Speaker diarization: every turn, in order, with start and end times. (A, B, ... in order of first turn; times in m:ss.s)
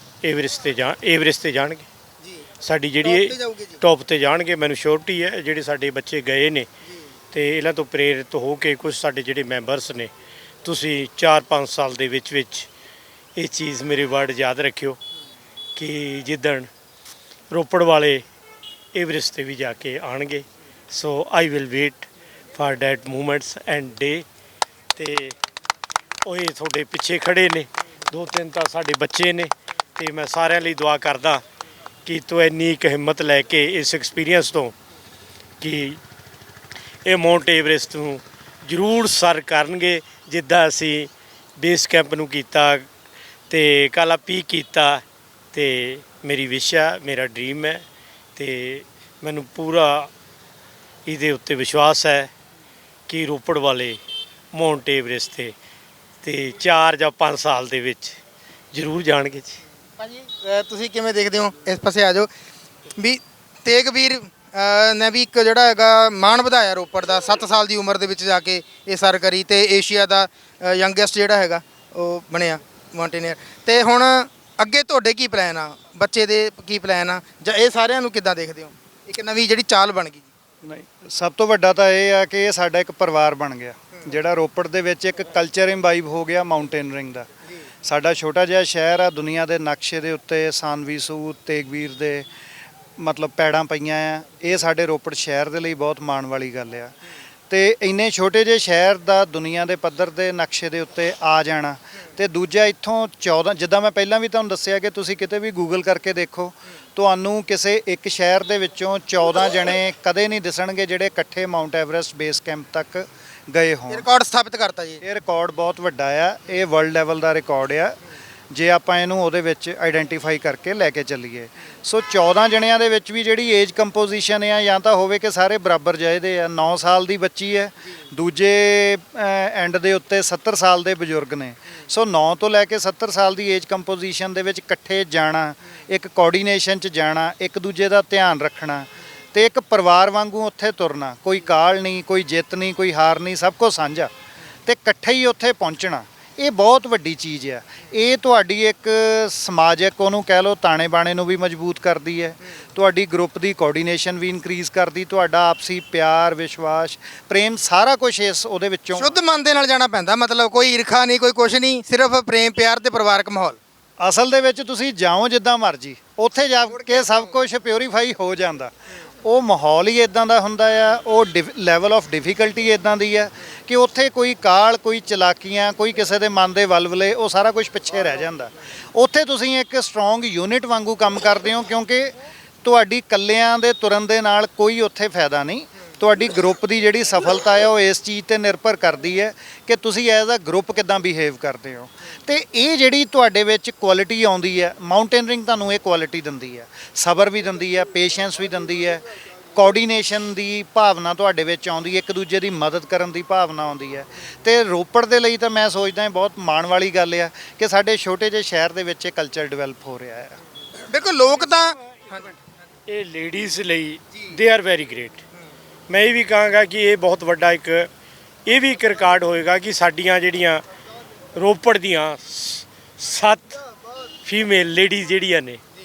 0:00.2-0:01.9 A
0:02.6-0:06.7 A
0:03.0-0:03.8 B
0:07.3-0:10.1 A
0:10.6-0:12.7 A
0:13.4-0:15.0 A
0:15.8-0:16.7 A
0:17.5-0:18.2 A
0:19.0-0:24.2 A
0:25.0-0:25.4 A
0:26.3-0:31.4 A
0:32.1-0:34.8 A
0:35.6-0:36.0 A
0:37.1-0:42.9 A
0:43.5-0:47.8 A
0:48.4-0:50.1 A
0:51.1-0:52.3 A
0:53.1-0:54.0 A
0:54.5-0:55.5 A
0:56.2-0:58.2 A
0:58.7-0:59.6 A
1:00.0-1:02.3 B
1:03.0-1:20.3 B
1:20.6-1:27.3 C
1:27.8-1:32.3 C
1:33.0-1:37.0 C
1:37.5-1:54.1 C
1:53.9-1:55.0 B
1:55.0-1:58.0 C
1:58.5-2:24.1 C
2:24.7-2:39.2 C
2:39.0-2:43.6 B
2:44.0-3:19.0 C
3:19.6-3:30.4 C
3:30.9-3:32.2 B
3:32.9-3:35.2 A
3:35.9-3:37.9 A
3:38.5-3:40.6 A
3:41.4-3:43.6 A
3:44.2-3:45.6 A